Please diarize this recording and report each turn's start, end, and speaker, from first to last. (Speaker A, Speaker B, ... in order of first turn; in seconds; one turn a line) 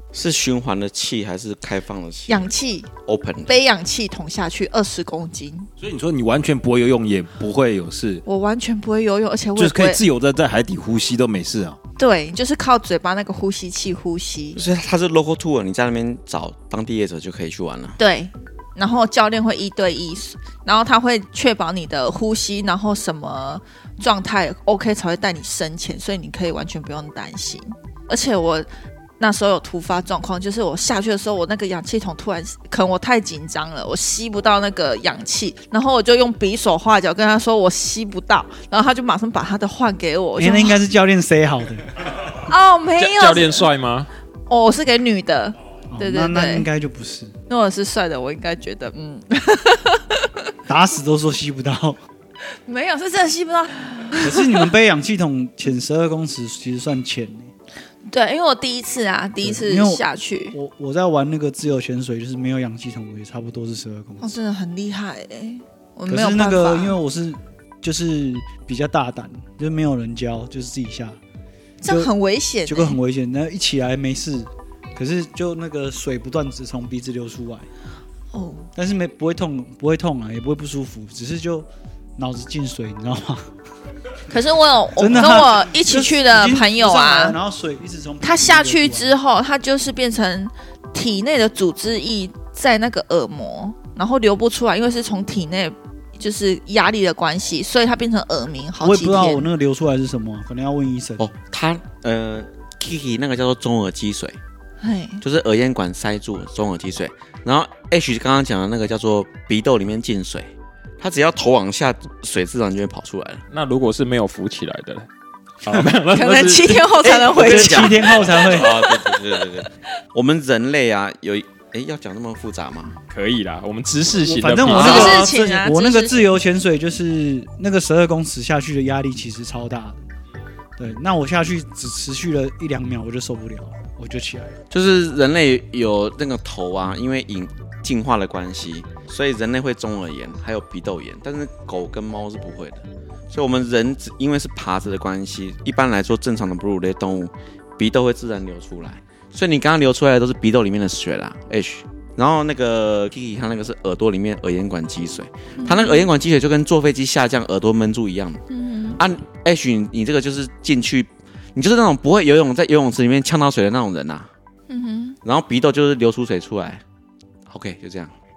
Speaker A: 0.1-2.5
Speaker B: 2.3-2.9
Speaker A: 3.0-3.5
Speaker B: 3.5-5.7
Speaker C: 5.8-8.2
Speaker B: 8.2-10.0
Speaker C: 9.6-11.8
Speaker B: 12.0-14.6
Speaker A: 14.5-18.0
Speaker B: 18.0-28.7
Speaker B: 29.2-40.8
Speaker D: 40.4-41.9
Speaker B: 42.4-43.7
Speaker E: 43.0-44.1
Speaker B: 44.5-46.7
Speaker D: 45.9-47.3
Speaker B: 47.5-50.3
Speaker D: 50.7-52.0
Speaker B: 52.5-54.7
Speaker D: 54.2-57.5
Speaker B: 58.1-60.5
Speaker D: 59.4-64.3
Speaker B: 64.2-67.0
Speaker D: 66.1-71.2
Speaker B: 71.8-73.0
Speaker D: 72.7-77.7
Speaker B: 78.3-78.7
Speaker D: 78.7-83.5
Speaker B: 84.3-87.3
Speaker D: 85.0-89.1
Speaker B: 88.2-99.5
Speaker D: 98.8-101.3
Speaker A: 101.2-104.4
Speaker B: 104.8-105.2
Speaker A: 105.2-113.4
Speaker E: 113.5-115.1
Speaker E: 115.6-116.9
Speaker B: 116.1-119.2
Speaker A: 117.0-123.0
Speaker D: 117.1-118.8
Speaker E: 123.1-125.2
Speaker D: 124.2-130.0
Speaker B: 124.7-126.3
Speaker A: 124.7-125.2
Speaker D: 130.8-134.6
Speaker A: 134.7-158.4
Speaker B: 155.6-156.1
Speaker B: 158.5-159.0
Speaker A: 159.0-164.3
Speaker B: 164.7-165.2
Speaker A: 165.2-166.8
Speaker A: 167.5-168.1